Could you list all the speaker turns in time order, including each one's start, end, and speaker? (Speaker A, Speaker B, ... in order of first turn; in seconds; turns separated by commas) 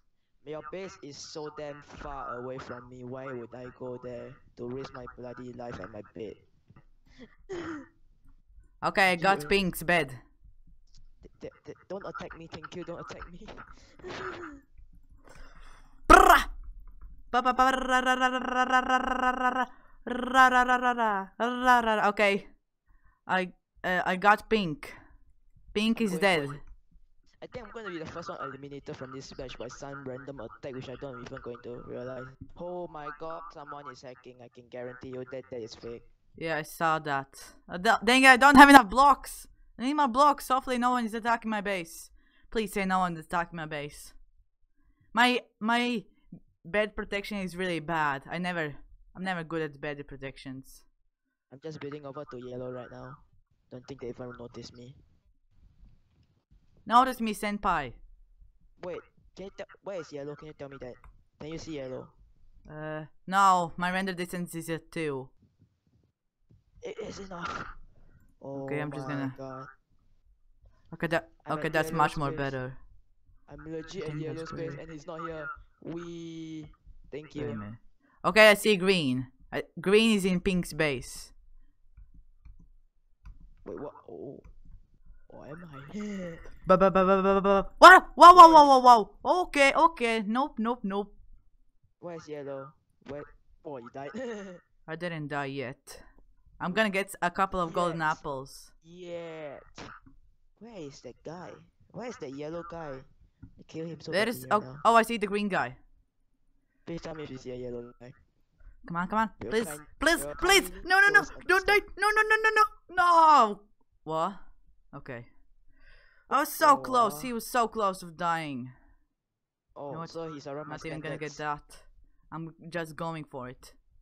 Speaker A: 0.4-6.4, Speaker A: 7.5-7.8, Speaker B: 8.8-10.2, Speaker A: 9.1-9.6, Speaker A: 11.2-14.6, Speaker B: 16.1-16.5, Speaker B: 17.3-22.5, Speaker B: 23.2-24.9, Speaker B: 25.7-26.6, Speaker A: 25.9-26.6, Speaker A: 27.4-36.0, Speaker B: 36.4-44.1, Speaker B: 45.1-46.1, Speaker B: 46.6-50.8, Speaker A: 51.5-55.0, Speaker B: 56.9-58.0, Speaker A: 58.8-62.1, Speaker B: 62.7-65.3, Speaker A: 66.8-67.7, Speaker A: 68.4-69.7, Speaker B: 68.5-69.3, Speaker B: 70.9-72.8, Speaker A: 71.5-72.5, Speaker A: 73.5-77.6, Speaker B: 74.0-74.8, Speaker B: 77.3-81.3, Speaker A: 83.6-84.5, Speaker A: 85.3-86.4, Speaker B: 86.7-91.1, Speaker A: 88.3-88.7, Speaker A: 92.0-94.6, Speaker B: 94.9-96.0, Speaker B: 96.6-98.7, Speaker A: 97.6-98.2, Speaker A: 98.8-99.9, Speaker A: 100.6-104.8, Speaker B: 104.1-105.8, Speaker A: 106.8-108.2, Speaker B: 108.8-114.4, Speaker A: 109.4-111.8, Speaker B: 114.9-115.3, Speaker B: 116.3-118.7, Speaker A: 116.6-117.3, Speaker A: 119.8-121.4, Speaker B: 120.6-123.8